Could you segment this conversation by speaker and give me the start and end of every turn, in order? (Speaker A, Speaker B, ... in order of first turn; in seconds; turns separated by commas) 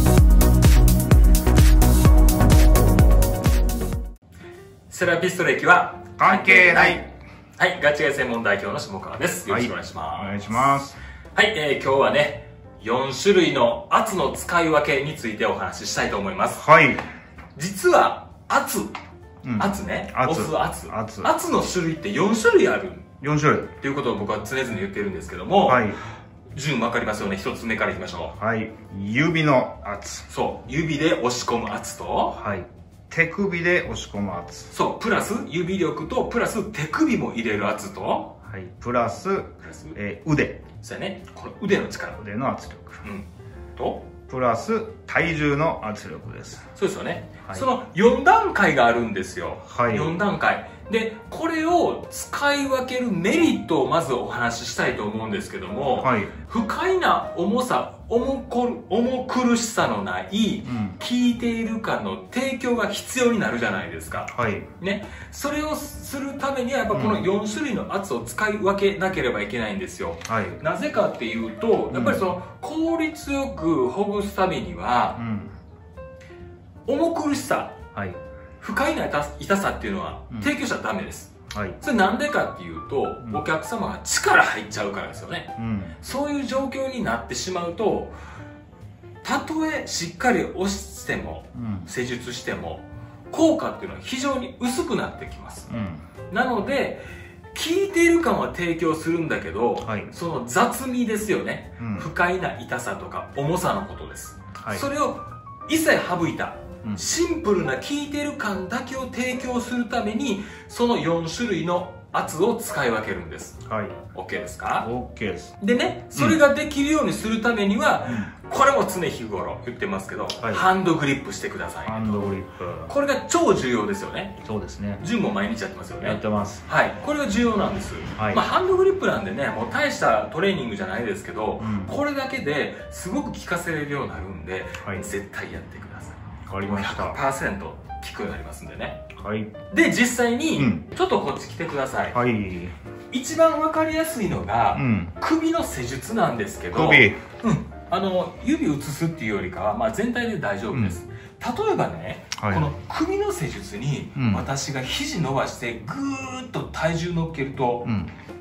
Speaker A: 4.9-7.1, Speaker B: 6.2-7.1, Speaker A: 7.6-10.7, Speaker B: 9.5-11.0, Speaker A: 11.3-16.6, Speaker B: 16.6-17.0, Speaker A: 17.6-18.9, Speaker B: 19.4-21.3, Speaker A: 19.6-23.1, Speaker B: 23.2-23.7, Speaker A: 23.8-25.9, Speaker B: 25.6-26.0, Speaker A: 26.5-28.3, Speaker B: 28.3-30.3, Speaker A: 30.3-32.4, Speaker B: 32.3-34.7, Speaker A: 34.7-38.3, Speaker B: 38.4-40.6, Speaker A: 39.6-40.0, Speaker A: 40.8-42.2, Speaker B: 42.2-43.0, Speaker A: 43.0-44.1, Speaker B: 44.3-46.7, Speaker A: 46.7-75.2, Speaker B: 49.6-50.1, Speaker B: 56.0-56.3, Speaker B: 60.6-61.0, Speaker B: 64.3-64.7, Speaker B: 66.9-67.2, Speaker B: 70.3-70.6, Speaker B: 71.9-72.2, Speaker B: 75.2-75.5, Speaker A: 76.8-77.8, Speaker A: 78.6-88.1, Speaker B: 81.5-81.8, Speaker B: 85.6-86.0, Speaker A: 89.2-95.7, Speaker B: 91.5-91.9, Speaker B: 95.7-96.0, Speaker A: 96.3-113.6, Speaker B: 99.8-100.1, Speaker B: 101.8-102.1, Speaker B: 104.6-104.9, Speaker B: 113.6-114.0, Speaker A: 114.1-114.9, Speaker B: 114.8-115.5, Speaker A: 115.6-122.2, Speaker B: 118.0-118.3, Speaker B: 120.4-120.7, Speaker B: 121.8-122.9, Speaker A: 122.9-124.4, Speaker B: 124.4-125.0, Speaker A: 125.0-139.1, Speaker B: 126.0-126.6, Speaker B: 128.2-128.4, Speaker B: 131.6-132.0, Speaker B: 134.8-135.1, Speaker B: 136.5-137.2, Speaker B: 139.1-139.5, Speaker A: 139.7-142.2, Speaker B: 140.6-140.8, Speaker B: 142.1-142.8, Speaker A: 143.1-157.9, Speaker B: 144.7-145.1, Speaker B: 146.7-147.2, Speaker B: 152.4-152.7, Speaker B: 154.2-154.4, Speaker B: 157.8-158.1